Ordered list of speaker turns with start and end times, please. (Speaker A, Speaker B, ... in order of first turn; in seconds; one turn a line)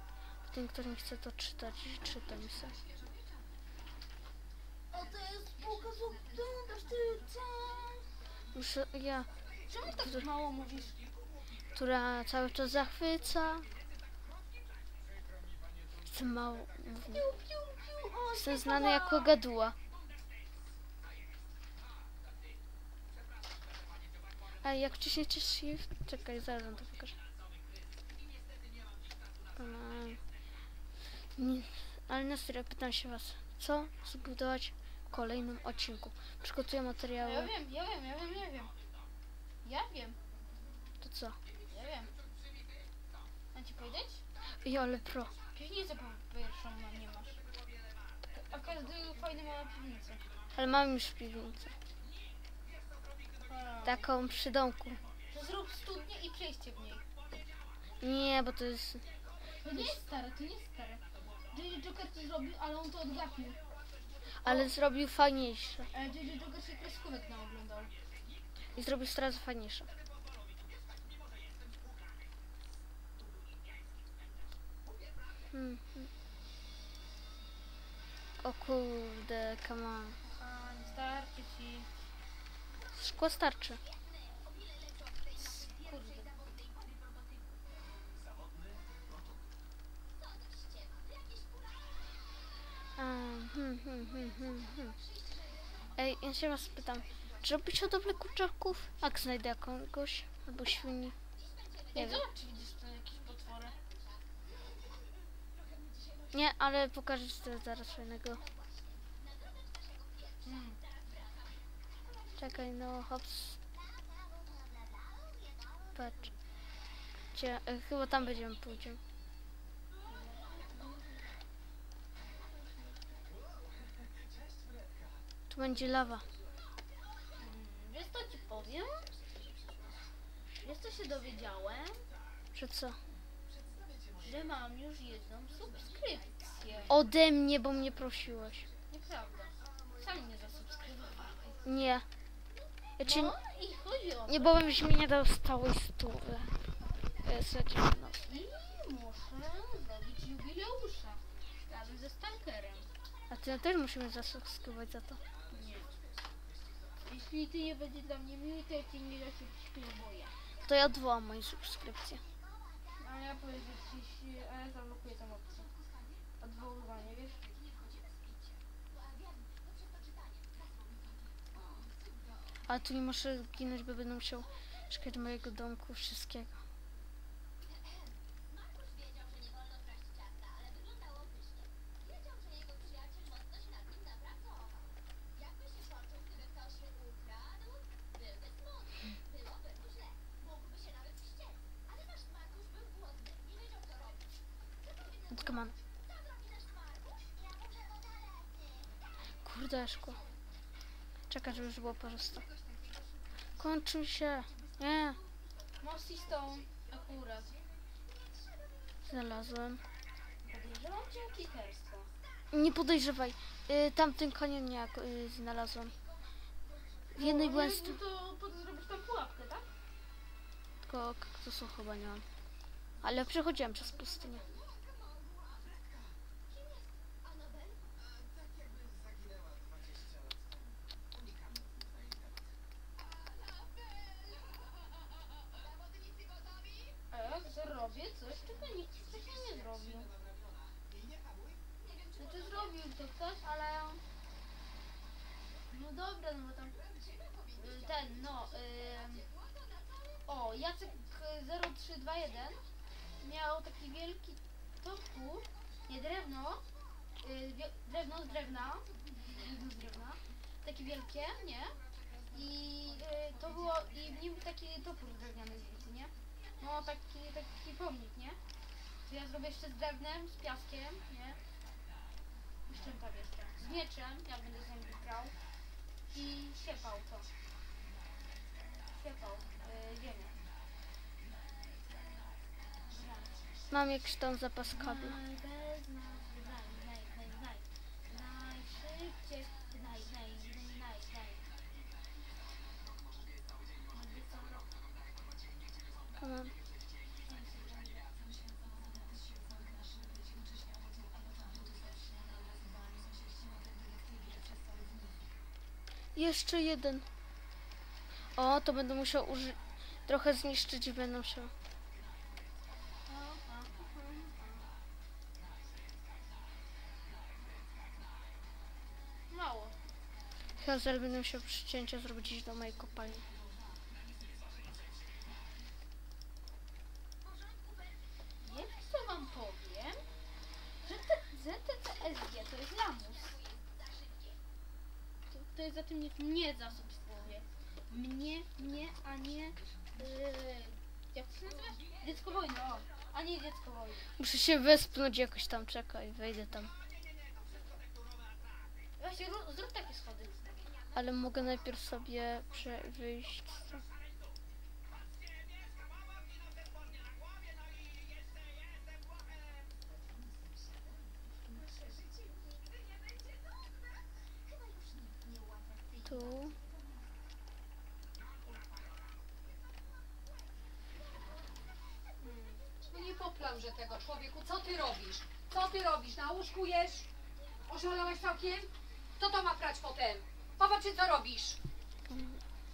Speaker A: 0.5-2.8
Speaker B: 4.9-8.1
Speaker A: 8.5-9.3
Speaker B: 9.7-11.0
Speaker A: 11.7-13.7
Speaker A: 16.1-17.2
Speaker B: 17.0-19.4
Speaker A: 18.4-19.8
Speaker A: 24.6-27.2
Speaker A: 29.6-30.2
Speaker A: 31.4-37.5
Speaker B: 37.2-38.7
Speaker B: 39.6-40.2
Speaker A: 41.0-41.4
Speaker B: 41.7-42.1
Speaker B: 43.5-44.2
Speaker A: 44.6-45.4
Speaker B: 45.5-47.4
Speaker B: 48.3-50.3
Speaker A: 50.6-51.7
Speaker B: 53.5-54.1
Speaker A: 53.9-55.0
Speaker B: 55.3-57.0
Speaker A: 58.0-59.0
Speaker B: 59.6-63.6
Speaker A: 64.4-65.9
Speaker B: 64.4-64.7
Speaker B: 65.9-67.9
Speaker A: 68.8-69.9
Speaker A: 75.5-76.1
Speaker A: 78.4-80.2
Speaker B: 80.3-81.9
Speaker A: 82.9-83.8
Speaker B: 85.3-86.3
Speaker A: 93.0-95.0
Speaker A: 96.0-101.2
Speaker B: 101.9-103.8
Speaker A: 102.0-102.2
Speaker A: 106.3-108.4
Speaker B: 110.4-110.8
Speaker A: 112.4-113.6
Speaker A: 115.9-116.3
Speaker A: 117.3-119.0
Speaker B: 120.1-121.3
Speaker A: 125.5-126.3
Speaker B: 127.4-129.1
Speaker B: 130.6-132.1
Speaker A: 132.5-133.0
Speaker B: 134.2-136.9
Speaker A: 136.9-138.7
Speaker B: 138.9-141.6
Speaker A: 141.6-142.1
Speaker A: 143.0-143.3
Speaker B: 143.0-144.9
Speaker A: 144.3-146.6
Speaker A: 147.2-148.3
Speaker B: 148.2-152.9
Speaker A: 153.3-155.2
Speaker B: 155.5-155.9
Speaker B: 157.1-160.3
Speaker A: 160.6-162.2
Speaker B: 163.0-165.7
Speaker B: 166.4-167.5
Speaker A: 172.7-176.6
Speaker A: 195.3-195.8
Speaker A: 199.4-200.2
Speaker A: 201.3-202.5
Speaker A: 203.6-205.2
Speaker B: 205.8-207.5
Speaker A: 209.1-209.8
Speaker B: 210.4-212.1
Speaker A: 212.5-215.9
Speaker A: 217.1-218.0
Speaker B: 217.2-219.7
Speaker A: 220.8-222.2
Speaker A: 223.0-224.5
Speaker B: 237.1-240.1
Speaker B: 242.2-244.0
Speaker B: 245.7-246.8
Speaker B: 247.5-249.3
Speaker B: 250.3-252.6
Speaker B: 253.2-256.6
Speaker B: 257.2-261.8
Speaker B: 262.3-268.4
Speaker B: 269.1-271.4
Speaker B: 272.7-275.3
Speaker B: 276.1-277.3
Speaker B: 278.9-280.4
Speaker B: 282.9-283.3
Speaker A: 283.7-285.2
Speaker B: 284.7-291.4
Speaker B: 293.9-294.8
Speaker A: 296.2-296.6
Speaker B: 297.2-298.1
Speaker A: 306.1-307.1
Speaker A: 308.4-311.5
Speaker B: 313.1-314.7
Speaker B: 319.3-319.8
Speaker A: 320.6-323.2
Speaker B: 328.4-330.0
Speaker B: 330.8-333.4
Speaker B: 335.3-344.1
Speaker A: 344.2-346.7
Speaker B: 349.0-350.4
Speaker A: 350.9-353.8
Speaker A: 366.1-366.6
Speaker B: 372.2-372.6
Speaker C: 372.9-377.1
Speaker C: 377.7-381.6
Speaker A: 382.1-382.4